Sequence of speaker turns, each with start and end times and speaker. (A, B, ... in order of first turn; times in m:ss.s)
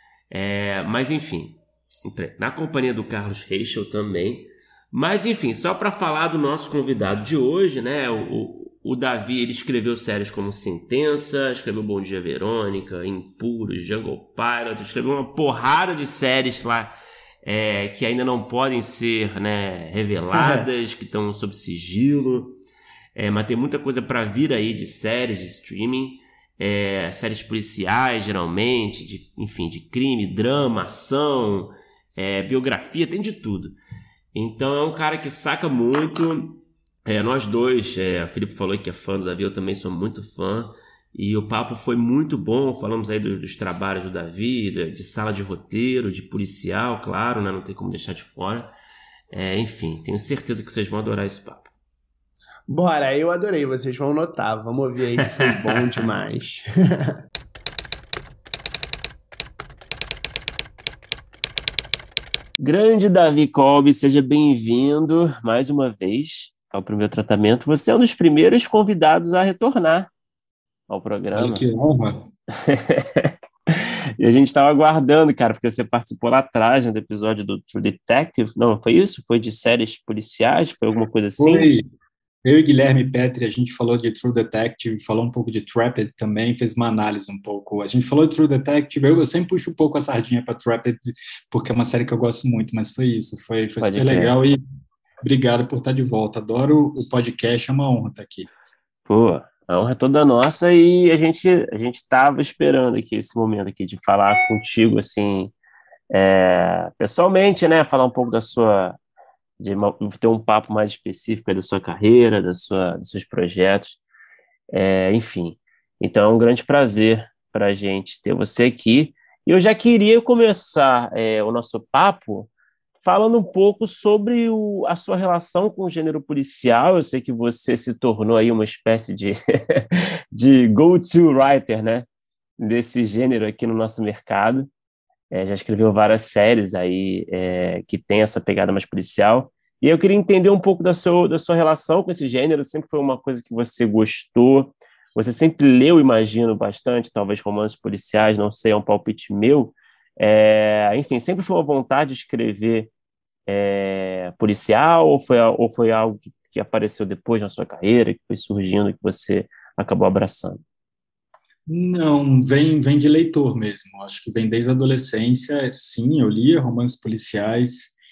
0:00.3-0:16.9 A
0:17.4-0:22.6 A
0:20.3-0:20.6 B
0:23.1-0:33.7 A
0:34.3-0:48.7 A
0:49.3-0:51.7 A
0:52.7-0:57.2 B
1:02.6-1:10.1 A
1:10.9-1:11.6 A
1:11.3-1:12.3 C
1:12.5-1:21.7 A
1:21.4-1:21.8 C
1:22.4-1:34.6 C
1:33.8-1:34.3 A
1:35.2-1:38.5 C
1:39.1-1:45.5 A
1:46.1-1:49.0 A
1:49.6-1:54.0 A
1:54.7-2:02.5 A
2:03.0-2:12.1 A
2:12.6-2:14.7 A
2:15.3-2:32.9 A
2:33.5-2:40.6 A
2:41.7-2:47.9 C